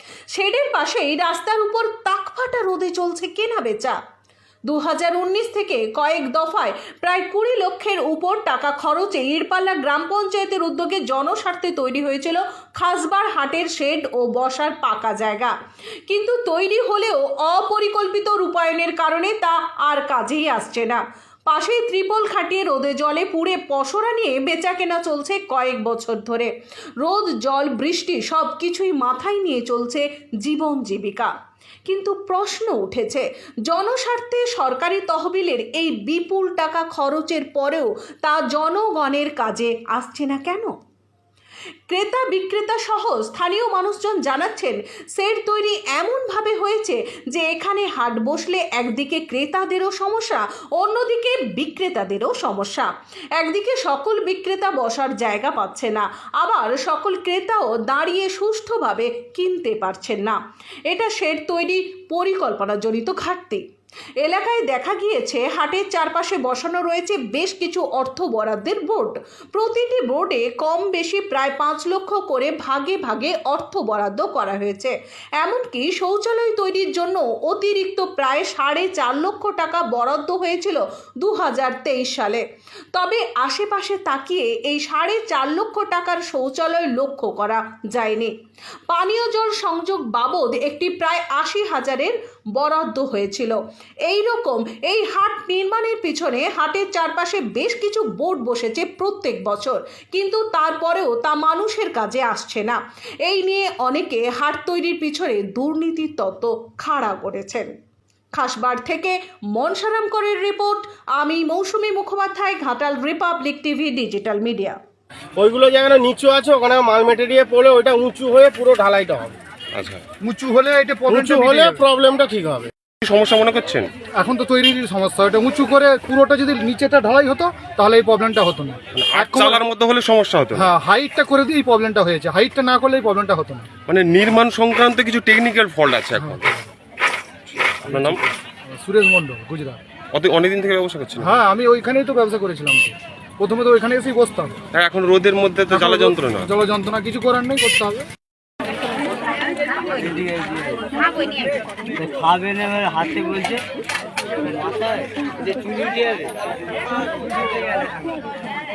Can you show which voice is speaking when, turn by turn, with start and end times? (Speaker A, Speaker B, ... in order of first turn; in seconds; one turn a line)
Speaker A: 0.3-4.0
Speaker A: 4.7-15.5
Speaker A: 16.1-26.5
Speaker A: 27.0-31.3
Speaker A: 31.9-40.7
Speaker A: 41.9-63.6
Speaker A: 64.2-82.4
Speaker A: 82.9-88.3
Speaker A: 88.9-107.7
Speaker A: 108.4-114.8
Speaker B: 115.4-119.4
Speaker C: 119.7-120.0
Speaker D: 120.2-121.9
Speaker B: 121.1-122.7
Speaker C: 123.0-123.9
Speaker D: 124.2-129.6
Speaker C: 128.9-130.7
Speaker D: 130.5-133.7
Speaker C: 133.9-136.5
Speaker D: 136.2-136.7
Speaker C: 137.6-138.2
Speaker D: 137.9-139.8
Speaker C: 140.1-141.4
Speaker D: 141.2-144.6
Speaker C: 144.7-146.5
Speaker D: 145.7-148.1
Speaker E: 149.9-150.9
Speaker E: 152.0-153.6
Speaker E: 154.4-156.3